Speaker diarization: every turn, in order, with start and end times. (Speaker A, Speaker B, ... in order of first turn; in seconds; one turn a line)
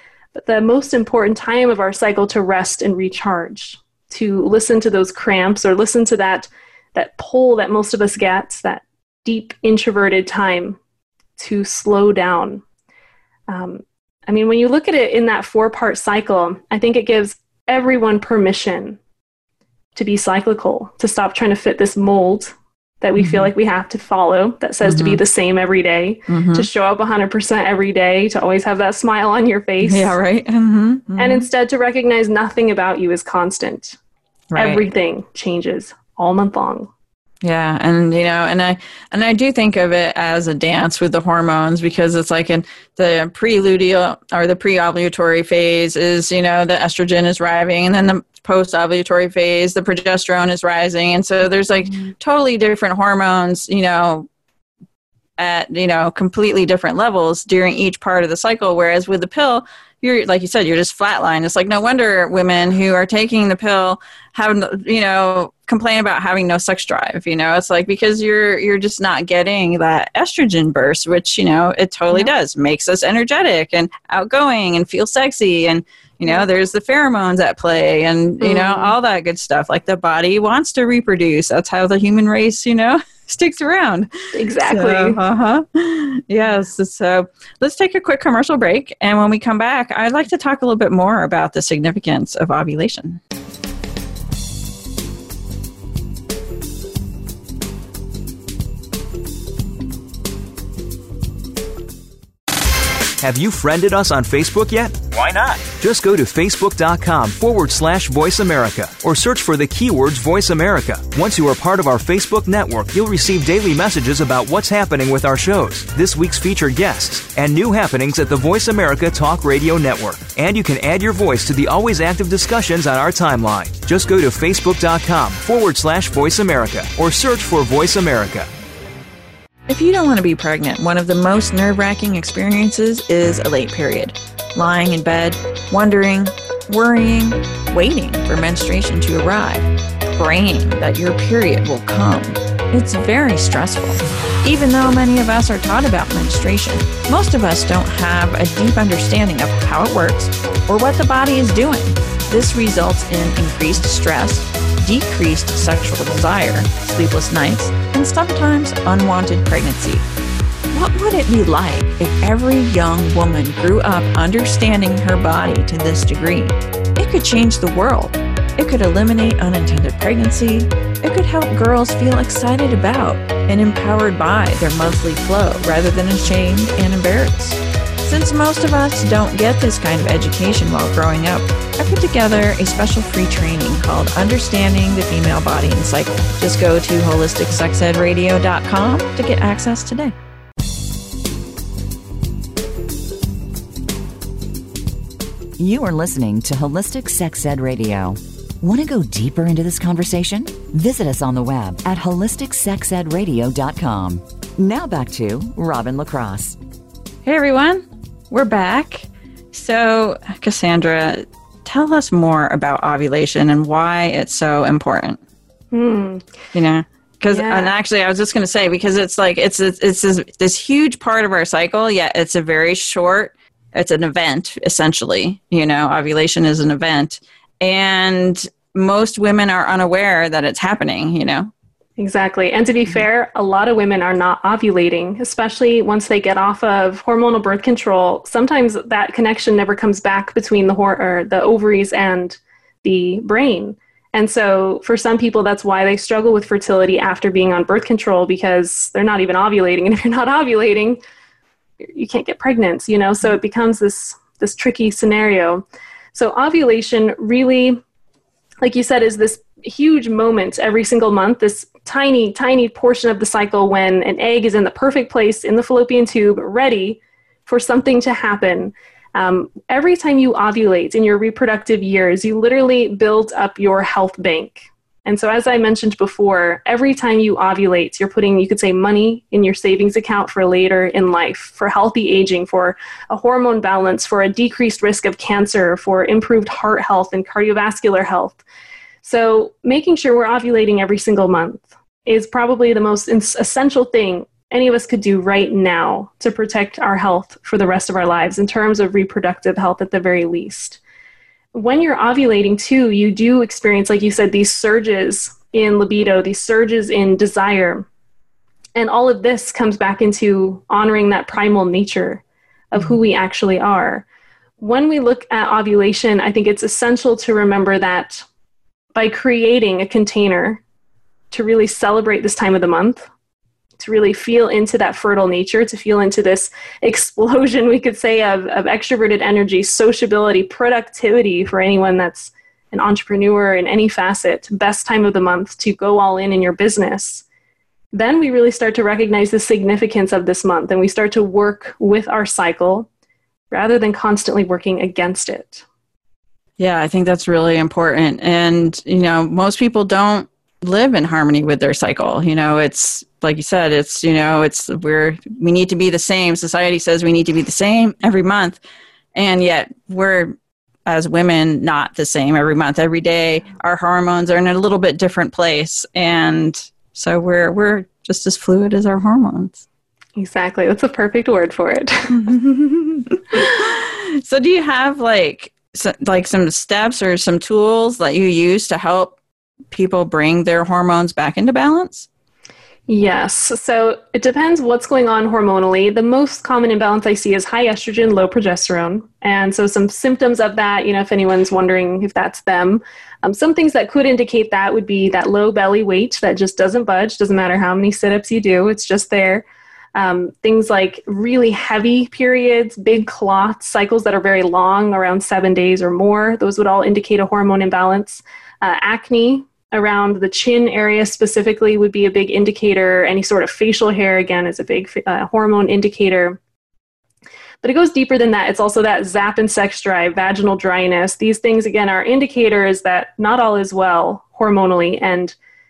Speaker A: 0.3-10.8
Speaker A: 11.4-12.6
Speaker A: 13.5-19.0
Speaker A: 19.9-30.1
Speaker B: 23.2-23.5
Speaker B: 24.8-25.2
Speaker B: 26.3-26.7
Speaker B: 29.8-31.4
Speaker A: 31.2-34.0
Speaker B: 34.5-34.8
Speaker A: 34.6-36.9
Speaker B: 37.4-54.3
Speaker B: 55.4-84.1
Speaker A: 78.4-78.9
Speaker A: 84.3-85.2
Speaker B: 84.7-93.2
Speaker C: 103.2-128.5
Speaker B: 129.7-160.1
Speaker B: 160.7-190.1
Speaker D: 195.6-206.6
Speaker B: 207.2-215.2
Speaker A: 215.7-216.3
Speaker B: 216.5-231.5
Speaker A: 217.3-217.7
Speaker A: 232.0-251.0
Speaker A: 251.8-257.8
Speaker A: 258.6-288.4
Speaker A: 289.0-300.8
Speaker A: 301.5-307.9
Speaker A: 308.8-314.1
Speaker A: 314.6-318.2
Speaker A: 318.9-320.6
Speaker A: 321.3-323.1
Speaker A: 323.8-337.2
Speaker A: 337.9-342.9
Speaker A: 343.5-345.6
Speaker B: 346.6-358.6
Speaker B: 359.1-360.4
Speaker B: 360.9-369.6
Speaker A: 370.2-372.2
Speaker B: 372.1-379.1
Speaker B: 379.7-382.1
Speaker A: 382.9-416.4
Speaker A: 417.6-425.4